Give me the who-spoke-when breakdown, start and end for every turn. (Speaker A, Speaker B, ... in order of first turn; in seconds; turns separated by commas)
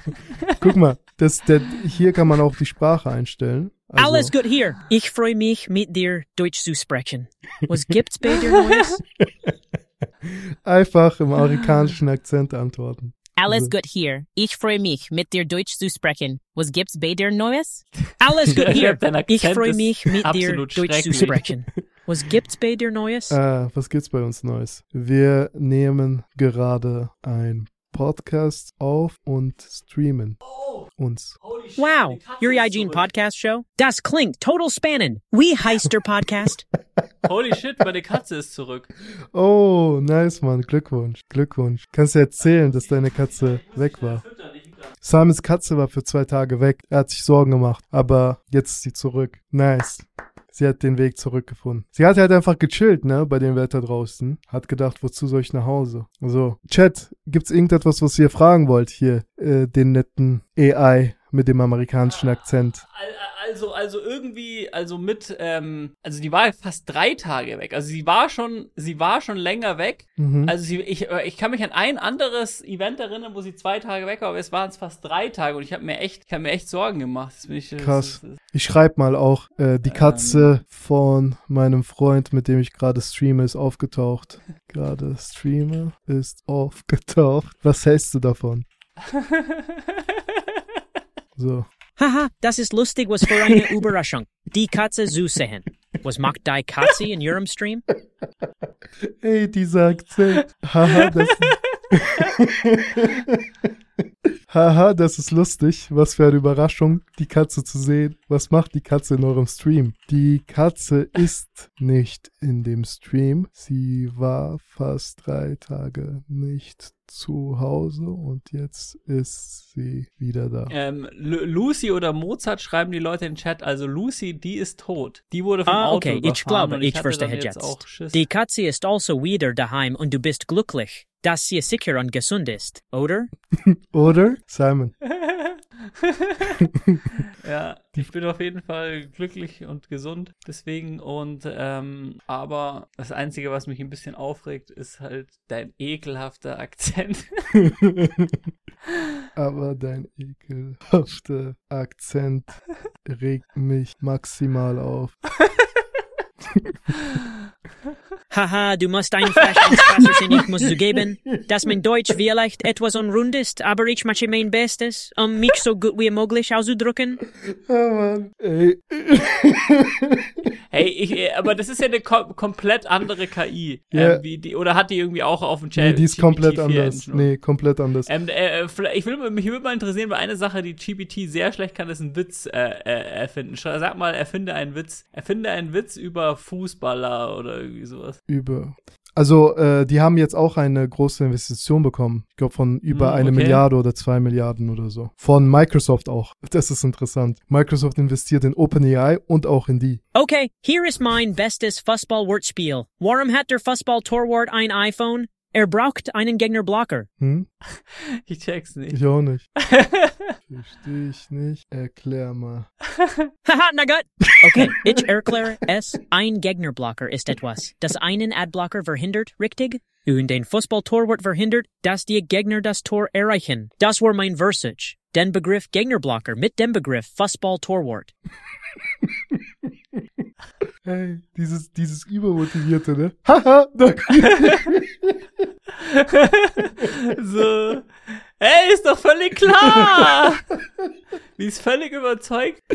Speaker A: 0.6-4.3, Speaker B: 4.0-9.0, Speaker A: 10.2-13.7, Speaker B: 13.3-23.3, Speaker C: 18.4-21.5, Speaker A: 23.3-30.4, Speaker C: 30.4-30.9, Speaker A: 31.0-31.4, Speaker C: 31.4-33.0, Speaker B: 31.8-36.6, Speaker C: 37.2-38.9, Speaker A: 39.3-44.2, Speaker C: 42.4-44.9, Speaker A: 45.0-62.8, Speaker C: 62.9-78.4, Speaker A: 70.2-70.5, Speaker A: 77.8-88.6, Speaker C: 79.8-80.5, Speaker C: 89.0-90.0, Speaker A: 91.3-91.7, Speaker B: 92.0-97.8, Speaker A: 93.3-93.8, Speaker A: 99.0-103.5, Speaker C: 100.9-101.4, Speaker A: 104.5-120.7, Speaker C: 120.7-128.2, Speaker B: 125.7-133.3, Speaker A: 133.6-134.9, Speaker C: 135.1-136.6, Speaker C: 137.4-147.5, Speaker A: 147.6-148.3, Speaker A: 149.3-155.2, Speaker B: 158.3-167.2, Speaker A: 159.8-161.5, Speaker A: 167.4-170.5, Speaker C: 170.7-177.3, Speaker A: 173.9-174.2, Speaker A: 175.8-178.1, Speaker C: 178.1-188.2, Speaker A: 188.3-200.0, Speaker C: 192.9-193.6, Speaker B: 200.1-207.1, Speaker A: 207.2-207.5, Speaker C: 207.7-209.0, Speaker A: 208.9-209.4, Speaker C: 209.6-210.3, Speaker A: 210.5-212.7, Speaker C: 213.0-213.3, Speaker B: 213.4-228.1, Speaker A: 214.3-215.5, Speaker A: 229.0-229.4, Speaker A: 230.8-235.4, Speaker C: 235.8-240.4, Speaker A: 239.6-240.0, Speaker C: 241.4-242.6